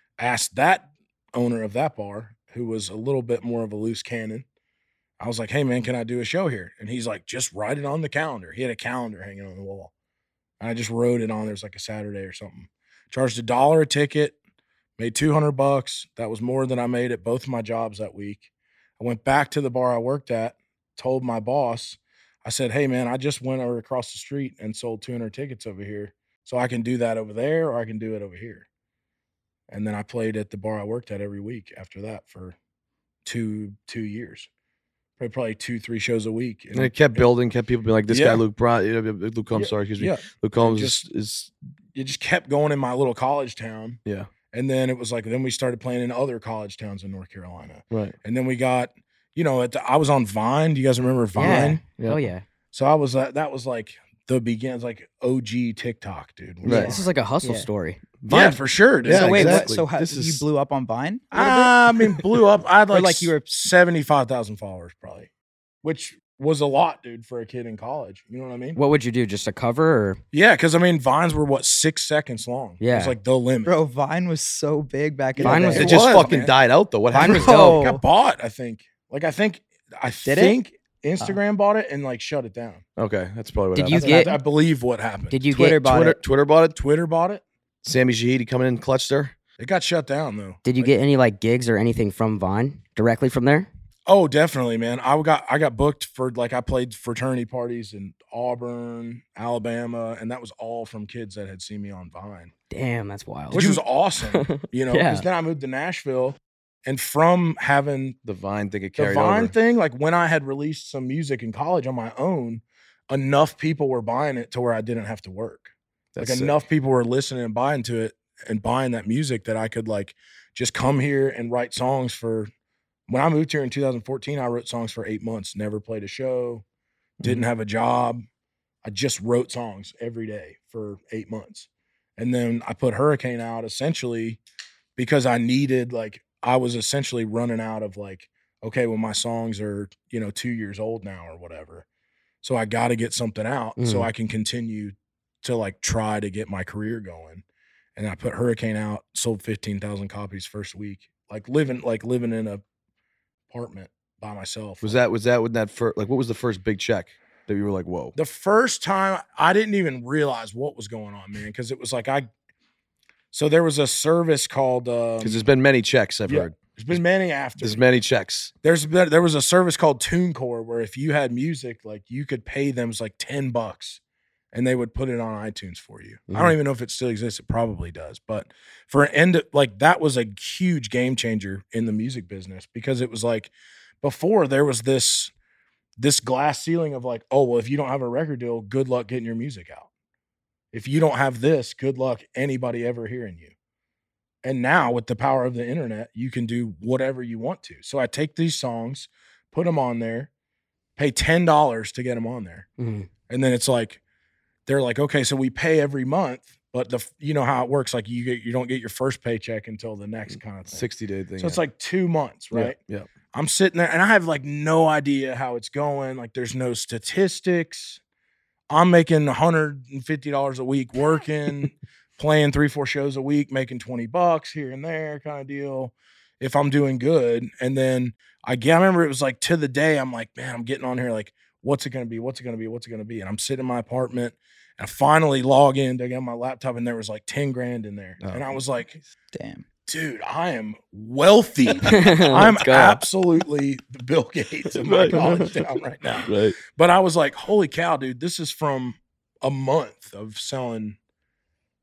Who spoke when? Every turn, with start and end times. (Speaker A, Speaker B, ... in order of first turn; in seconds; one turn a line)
Speaker A: 0.2-4.5
Speaker A: 5.2-9.9
Speaker A: 10.6-14.4
Speaker A: 15.0-18.5
Speaker A: 19.0-28.7
Speaker A: 29.7-32.6
Speaker A: 33.2-34.5
Speaker A: 35.2-37.3
Speaker B: 36.7-41.5
Speaker A: 38.1-38.4
Speaker A: 39.5-41.1
Speaker A: 41.9-44.0
Speaker B: 44.0-44.3
Speaker A: 44.5-51.8
Speaker B: 47.9-48.2
Speaker C: 51.4-52.4
Speaker D: 51.4-51.8
Speaker B: 52.0-52.2
Speaker A: 52.7-57.1
Speaker D: 56.6-56.9
Speaker B: 56.6-57.0
Speaker C: 56.6-58.0
Speaker D: 57.4-57.7
Speaker B: 58.2-60.4
Speaker A: 58.3-59.7
Speaker D: 59.0-62.1
Speaker A: 61.3-65.3
Speaker D: 62.9-63.5
Speaker A: 65.8-68.8
Speaker C: 68.8-70.2
Speaker A: 70.3-73.7
Speaker C: 72.8-73.2
Speaker D: 73.7-76.0
Speaker A: 75.4-76.5
Speaker C: 75.4-76.3
Speaker B: 75.5-77.7
Speaker C: 77.1-77.9
Speaker D: 77.1-78.0
Speaker A: 77.6-82.8
Speaker D: 80.2-80.6
Speaker B: 83.0-84.0
Speaker C: 83.8-84.4
Speaker A: 83.9-85.4
Speaker C: 85.3-85.8
Speaker D: 85.5-86.2
Speaker B: 85.7-86.8
Speaker A: 86.8-87.4
Speaker B: 87.8-89.3
Speaker A: 89.6-91.0
Speaker C: 90.7-93.7
Speaker A: 94.1-102.5
Speaker C: 102.7-105.2
Speaker A: 103.5-108.2
Speaker B: 108.2-109.5
Speaker A: 109.0-122.5
Speaker B: 116.2-116.6
Speaker A: 123.1-126.6
Speaker A: 127.2-128.2
Speaker A: 128.8-134.4
Speaker A: 135.0-141.8
Speaker A: 142.4-147.4
Speaker C: 143.8-144.1
Speaker A: 148.0-152.6
Speaker A: 153.5-155.0
Speaker B: 154.8-158.2
Speaker A: 158.2-162.3
Speaker A: 163.3-165.4
Speaker B: 165.2-167.0
Speaker A: 166.3-167.8
Speaker B: 167.6-168.5
Speaker A: 168.6-174.0
Speaker A: 174.5-185.3
Speaker C: 176.3-176.6
Speaker A: 186.0-189.9
Speaker A: 190.7-193.5
Speaker A: 194.4-200.3
Speaker A: 201.0-202.7
Speaker C: 202.8-203.1
Speaker A: 203.3-204.0
Speaker A: 204.7-210.9
Speaker B: 210.7-211.6
Speaker A: 211.4-212.8
Speaker B: 212.5-213.1
Speaker A: 213.3-218.0
Speaker A: 218.7-239.0
Speaker D: 239.3-239.6
Speaker A: 239.9-251.0
Speaker C: 241.8-243.0
Speaker B: 244.7-245.6
Speaker C: 245.1-245.4
Speaker B: 246.2-246.6